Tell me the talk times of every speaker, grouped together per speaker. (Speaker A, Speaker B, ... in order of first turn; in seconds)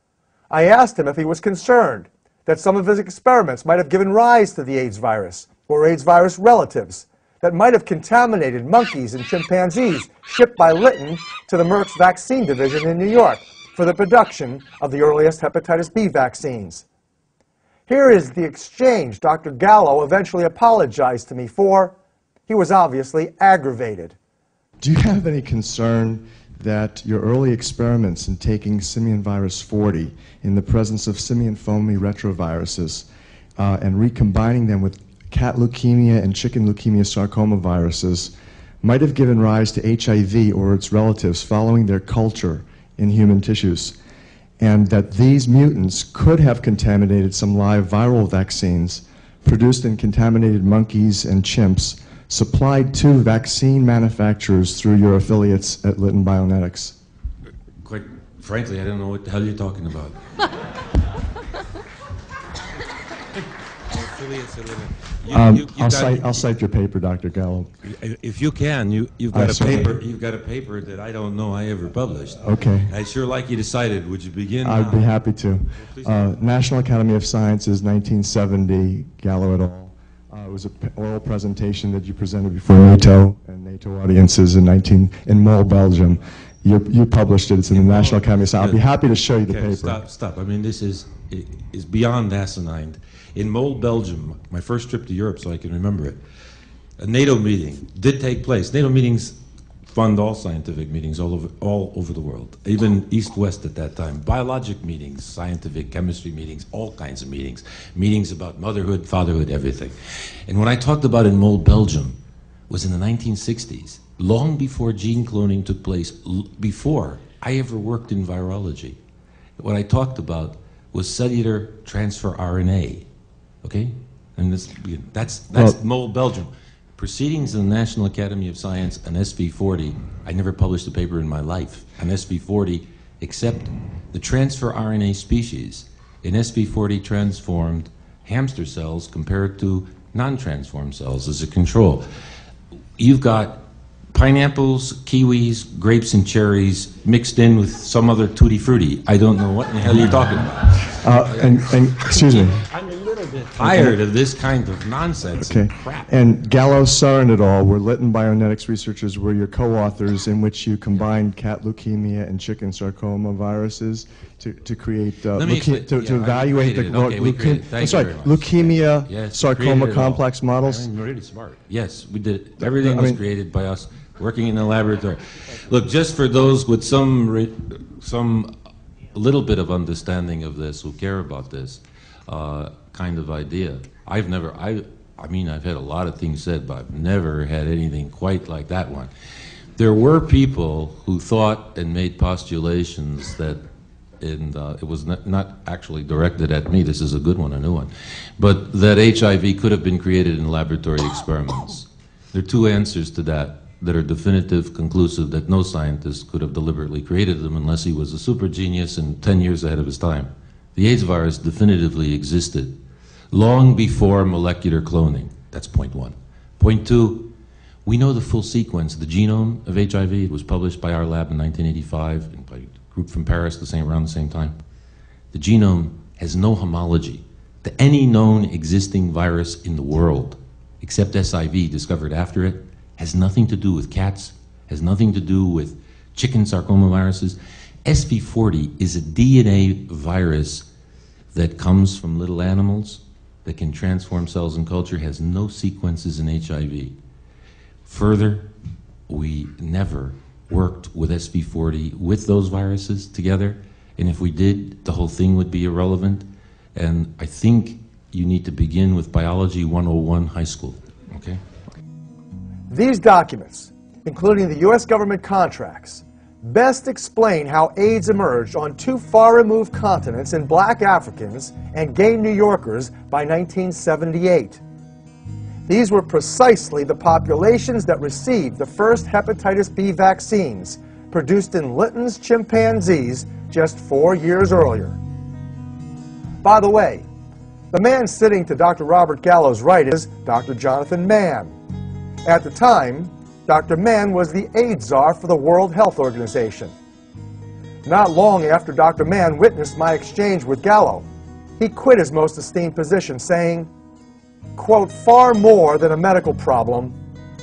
Speaker A: 0.5-16.8, 17.9-21.9, 22.5-24.1, 262.7-274.6, 275.7-285.0, 286.4-287.1, 287.7-291.6, 292.2-296.7, 297.8-301.1, 301.6-303.7, 304.6-306.9
Speaker B: 24.8-44.0, 44.6-56.9, 65.3-67.7, 69.3-70.0, 72.4-72.9, 74.6-90.0, 150.9-152.6, 153.6-153.9, 155.4-170.9, 172.6-173.2
Speaker C: 57.8-60.2, 63.9-66.5, 67.8-75.1, 75.8-76.3, 87.7-88.8, 89.4-96.2, 97.0-99.4, 99.9-109.9, 110.5-112.2, 112.7-119.0, 119.6-123.0, 123.6-142.0, 143.0-143.6, 144.1-156.1, 165.3-178.5, 179.1-189.1, 189.8-193.6, 194.2-212.7, 213.3-217.3, 217.8-224.6, 225.3-240.7, 241.3-246.9, 247.8-248.5, 249.1-261.4